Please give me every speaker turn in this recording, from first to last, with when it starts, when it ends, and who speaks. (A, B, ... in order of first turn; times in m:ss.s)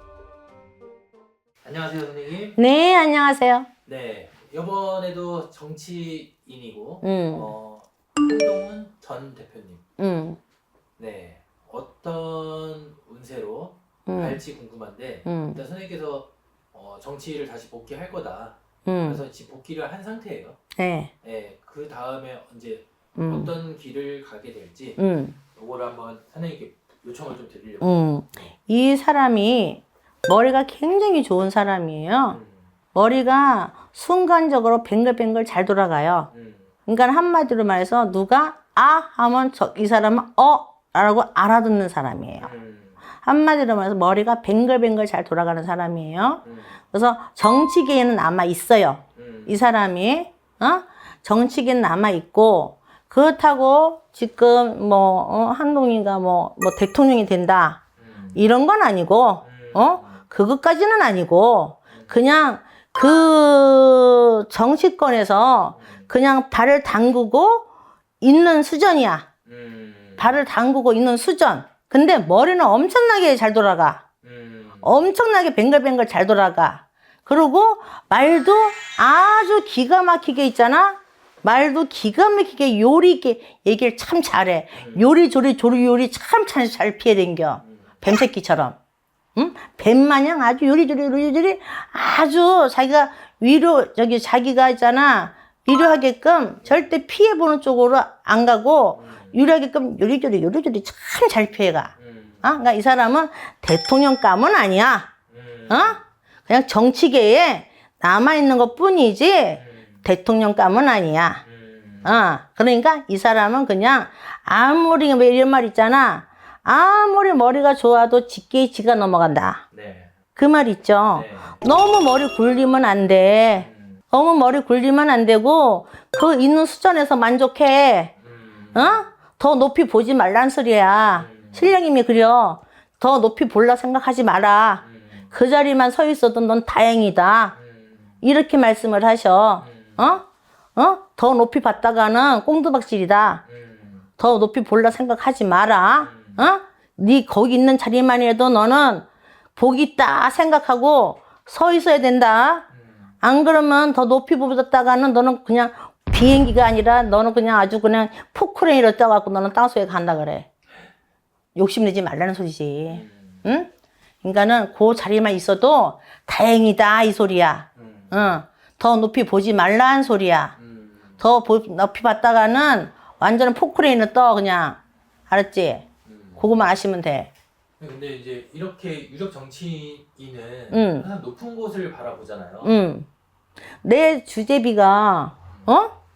0:01.6-0:02.6 A
0:02.6-0:03.7 B
0:03.9-0:09.8 A
0:07.0-0:07.5 B
0:10.0-0:10.4 B
0:11.0-0:20.6 A
0:14.1-0:14.4 B
0:15.3-0:15.6 B
0:18.9-0:19.2 B
0:20.8-0:21.1 B
0:21.2-0:25.0 A
0:23.2-0:23.5 B
0:25.0-0:25.4 B
0:25.6-0:28.5 A
0:27.8-0:32.4 B
0:32.3-0:32.7 A
0:33.0-0:36.3 B
0:36.3-0:36.7 A
0:36.9-0:42.5 B
0:42.4-0:43.0 A
0:43.2-0:57.8 B
0:46.4-0:46.8 A
0:49.2-0:49.6 A
0:58.0-0:58.5 A
0:58.4-1:07.6 B
0:59.4-1:00.2 A
1:01.9-1:02.2 A
1:05.8-1:06.1 A
1:08.2-1:09.3 B
1:09.5-1:10.4 A
1:10.2-1:14.0 B
1:14.2-1:15.0 A
1:14.8-1:28.8 B
1:24.8-1:25.1 A
1:29.4-1:41.9 B
1:39.0-1:39.4 A
1:42.0-1:42.6 A
1:42.4-1:45.1 B
1:45.3-1:46.0 A
1:45.7-1:51.4 B
1:49.6-1:50.0 A
1:51.4-1:52.3 A
1:52.0-1:59.6 B
1:59.7-2:00.1 A
2:00.4-2:08.1 B
2:01.1-2:01.6 A
2:03.6-2:04.0 A
2:08.2-2:09.0 A
2:08.8-2:17.5 B
2:11.2-2:11.8 A
2:14.8-2:15.3 A
2:17.6-2:18.2 A
2:18.2-2:20.2 B
2:19.6-2:20.2 A
2:20.8-2:23.4 B
2:23.5-2:24.1 A
2:24.2-2:32.6 B
2:26.0-2:26.5 A
2:32.7-2:33.1 A
2:33.2-2:40.5 B
2:41.6-2:43.7 B
2:42.9-2:43.5 A
2:44.2-2:50.5 B
2:47.8-2:48.4 A
2:50.6-2:51.2 A
2:51.2-2:55.8 B
2:56.0-2:56.5 A
2:56.4-2:57.3 B
2:57.8-3:02.8 A
3:00.7-3:01.1 B
3:02.6-3:03.1 B
3:03.8-3:05.9 B
3:05.5-3:05.8 A